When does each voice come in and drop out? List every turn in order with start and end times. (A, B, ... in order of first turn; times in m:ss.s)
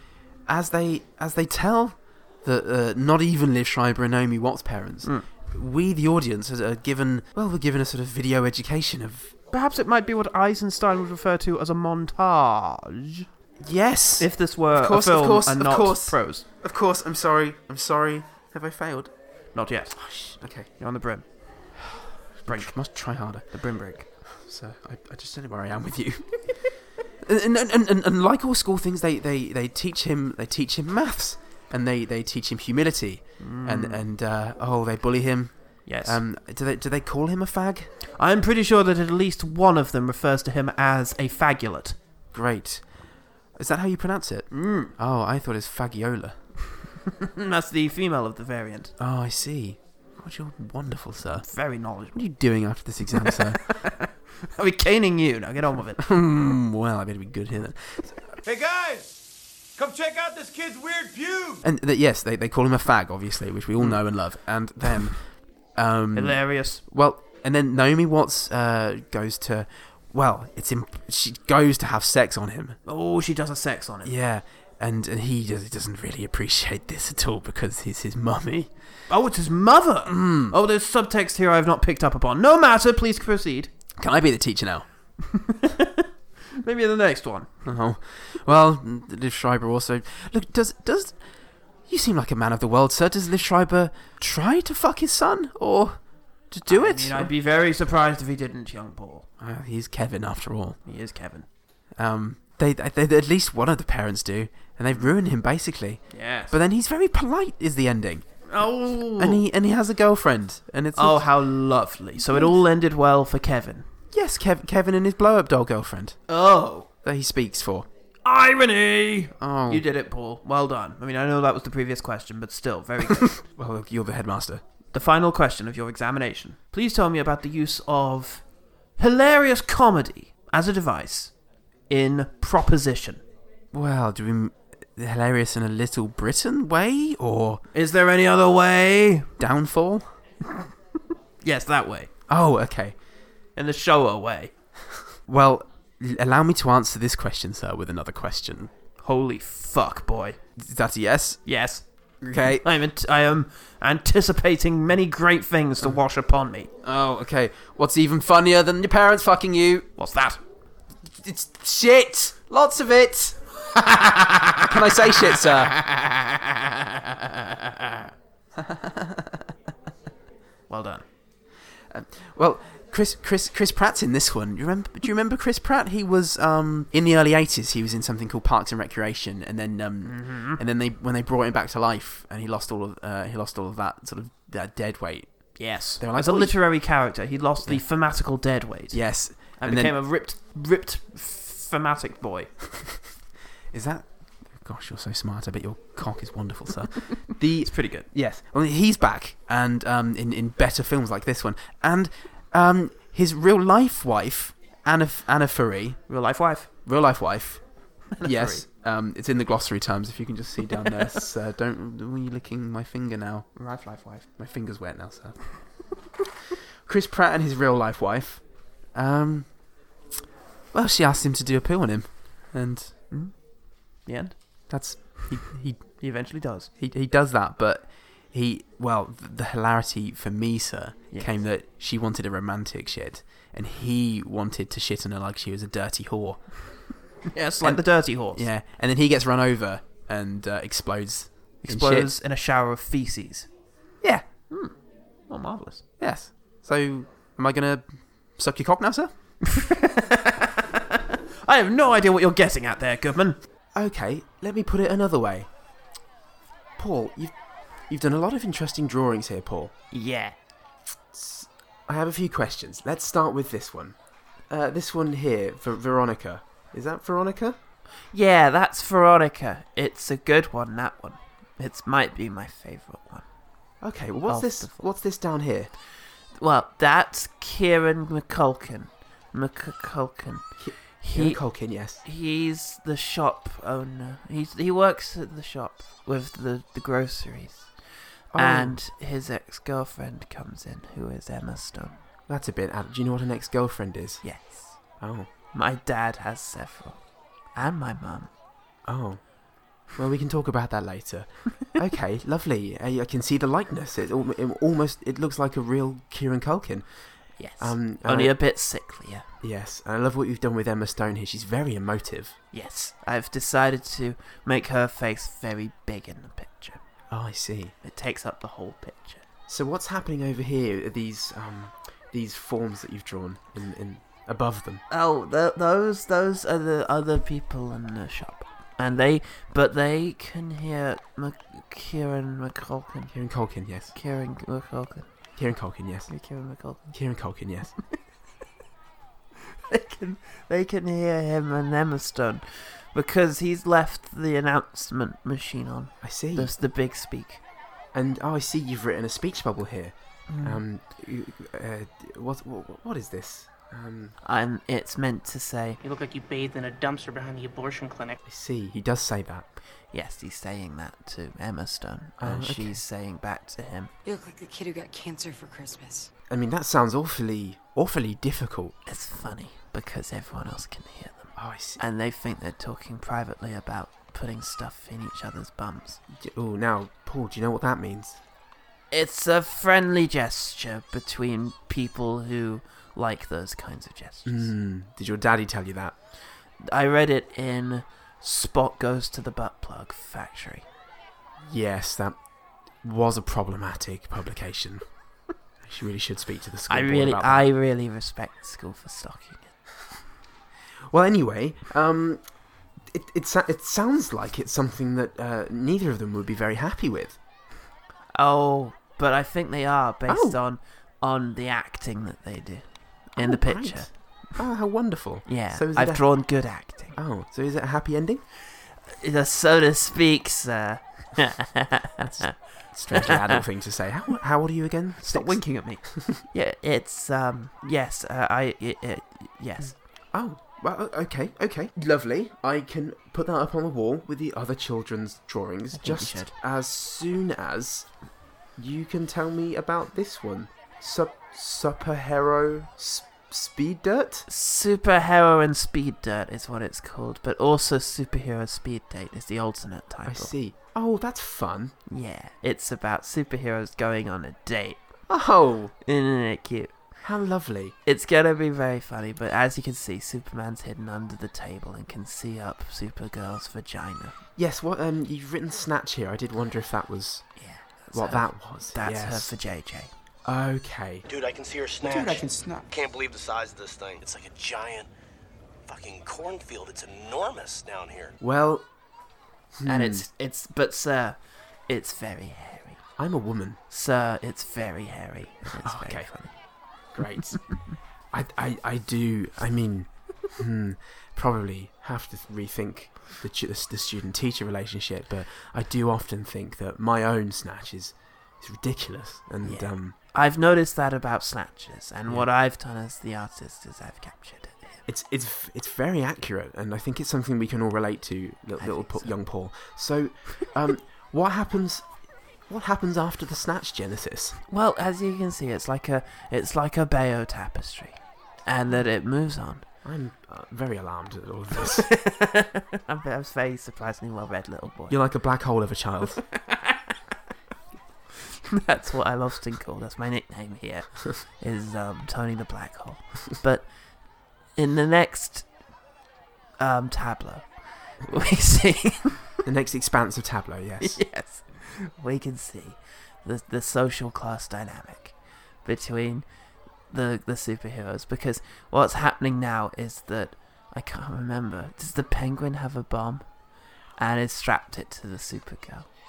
0:00.4-0:09.3 A
0:09.5-0:13.2 B
0:13.6-0:19.1 A
0:14.2-0:16.4 B
0:19.5-0:20.0 B
0:20.0-0:20.7 A
0:20.7-0:21.7 B
0:22.4-0:23.5 A
0:22.5-0:22.7 B
0:23.5-0:24.1 B
0:24.4-0:26.5 A
0:27.2-0:37.9 A
0:33.4-0:34.0 B
0:35.8-0:36.2 B
0:38.2-0:42.0 B
0:42.3-0:42.9 A
0:43.6-0:46.4 A
0:44.5-0:44.9 B
0:47.2-0:48.9 B
0:49.0-0:51.5 A
0:51.4-0:52.2 B
0:52.1-0:53.6 A
0:53.2-0:56.0 B
0:56.0-0:58.2 A
0:58.4-0:59.2 C
0:59.8-1:01.6 C
1:01.6-1:12.8 A
1:06.1-1:06.8 B
1:12.8-1:14.1 B
1:14.0-1:18.7 A
1:19.1-1:23.7 B
1:20.0-1:20.6 A
1:24.0-1:24.8 A
1:25.3-1:27.5 B
1:27.6-1:31.2 A
1:31.9-1:37.3 A
1:36.7-1:39.3 B
1:39.4-1:40.8 A
1:40.8-1:41.5 B
1:42.0-1:48.2 A
1:46.1-1:46.5 B
1:48.5-1:49.4 B
1:49.2-1:51.3 A
1:51.0-1:53.9 B
1:54.1-1:56.2 A
1:56.3-1:56.9 B
1:57.0-1:57.9 A
1:58.2-2:03.4 B
1:59.4-1:59.8 A
2:03.4-2:04.6 A
2:04.9-2:08.4 B
2:09.0-2:11.3 B
2:11.9-2:13.2 B
2:13.7-2:17.6 A
2:17.7-2:19.3 B
2:19.4-2:20.1 A
2:21.4-2:22.1 B
2:22.3-2:23.0 A
2:23.6-2:24.5 B
2:25.2-2:28.7 A
2:29.0-2:30.4 B
2:30.6-2:31.4 A
2:31.4-2:31.8 B
2:32.2-2:32.6 A
2:32.4-2:36.7 B
2:36.8-2:39.9 A
2:40.0-2:40.4 B
2:41.2-2:43.4 A
2:43.8-2:44.6 B
2:44.6-2:46.4 A
2:47.6-2:48.0 A
2:48.5-2:49.5 A
2:50.7-2:51.0 B
2:51.9-3:06.6 A
3:00.0-3:00.6 B
3:05.6-3:12.7 B
3:07.6-3:07.9 A
3:08.9-3:10.0 A
3:13.7-3:26.0 A
3:17.6-3:18.1 B
3:26.1-3:26.7 B
3:26.8-3:33.5 A
3:28.1-3:28.6 B
3:30.8-3:31.2 B
3:33.6-3:34.2 B
3:34.4-3:35.5 A
3:36.8-3:39.5 A
3:40.7-3:42.9 A
3:43.1-3:43.4 B
3:44.0-3:44.4 B
3:44.7-3:46.0 A
3:46.0-3:46.7 B
3:46.8-3:56.9 A
3:57.3-3:58.5 B
3:57.6-4:02.1 A
4:01.6-4:03.5 B
4:04.5-4:04.8 B
4:05.3-4:05.8 B
4:06.0-4:09.1 A
4:09.4-4:13.4 B
4:13.8-4:15.5 A
4:16.8-4:17.3 A
4:17.9-4:19.7 A
4:19.9-4:20.3 B
4:21.1-4:23.9 A
4:24.5-4:27.5 A
4:28.1-4:33.2 B
4:33.8-4:35.7 A
4:34.3-4:34.8 B
4:36.3-4:41.4 B
4:40.6-4:42.0 A
4:42.0-4:47.7 B
4:48.3-4:48.7 A
4:48.4-4:52.0 B
4:52.3-4:54.2 A
4:54.2-4:54.8 B
4:55.0-4:55.3 A
4:55.5-4:57.0 B
4:57.5-4:58.3 B
4:58.9-4:59.2 A
5:00.0-5:06.8 A
5:07.4-5:09.3 B
5:07.6-5:08.3 A
5:09.4-5:12.3 A
5:12.5-5:16.8 B
5:17.1-5:17.7 A
5:17.8-5:19.2 B
5:19.5-5:24.8 A
5:24.9-5:33.1 B
5:33.1-5:33.9 A
5:33.9-5:35.1 B
5:35.4-5:36.1 A
5:36.1-5:36.9 B
5:36.9-5:37.7 A
5:39.7-5:47.4 B
5:46.0-5:46.5 A
5:47.9-5:49.9 A
5:50.3-5:50.6 B
5:50.4-5:54.1 A
5:54.2-5:55.8 B
5:55.8-5:58.2 D
5:58.3-5:59.4 A
5:59.9-6:03.9 B
6:02.2-6:02.7 A
6:04.0-6:06.1 E
6:06.3-6:08.7 A
6:08.8-6:16.0 B
6:11.4-6:11.8 A
6:16.2-6:18.2 A
6:18.9-6:24.5 B
6:24.2-6:25.9 A
6:26.6-6:30.6 B
6:31.4-6:32.2 A
6:32.8-6:34.8 A
6:35.6-6:37.5 A
6:36.7-6:39.5 B
6:40.9-6:42.2 A
6:42.9-6:47.1 A
6:48.1-6:53.9 B
6:50.1-6:50.3 A
6:53.2-6:56.0 A
6:55.2-6:57.0 B
6:57.0-6:58.2 A
6:58.9-7:03.4 B
7:02.2-7:05.4 A
7:05.0-7:09.7 B
7:10.1-7:17.9 A
7:15.7-7:16.3 B
7:18.6-7:24.3 A
7:24.3-7:30.3 B
7:30.1-7:31.7 A
7:31.9-7:34.8 B
7:35.1-7:35.7 A
7:35.8-7:36.8 B
7:37.0-7:37.7 A
7:37.8-7:44.2 B
7:44.4-7:47.3 A
7:47.4-7:49.9 B
7:47.9-7:49.4 A
7:50.2-7:51.0 A
7:51.1-7:54.9 F
7:51.8-7:52.6 D
7:55.6-7:58.2 F
7:58.2-7:58.6 A
7:59.6-8:00.0 A
7:59.6-8:02.8 B
8:03.0-8:03.6 A
8:03.7-8:06.4 B
8:05.6-8:06.1 A
8:06.9-8:07.6 A
8:08.1-8:19.9 A
8:19.4-8:24.8 B
8:24.9-8:31.9 A
8:28.6-8:29.2 B
8:32.4-8:34.3 A
8:34.5-8:39.6 B
8:39.8-8:41.9 A
8:41.6-8:45.0 B
8:44.9-8:46.2 A
8:46.4-8:46.8 B
8:48.5-8:53.7 B
8:54.5-8:55.4 B
8:56.6-8:59.3 B
8:59.4-9:01.0 A
9:00.8-9:06.2 B
9:06.9-9:13.3 B
9:14.0-9:15.9 B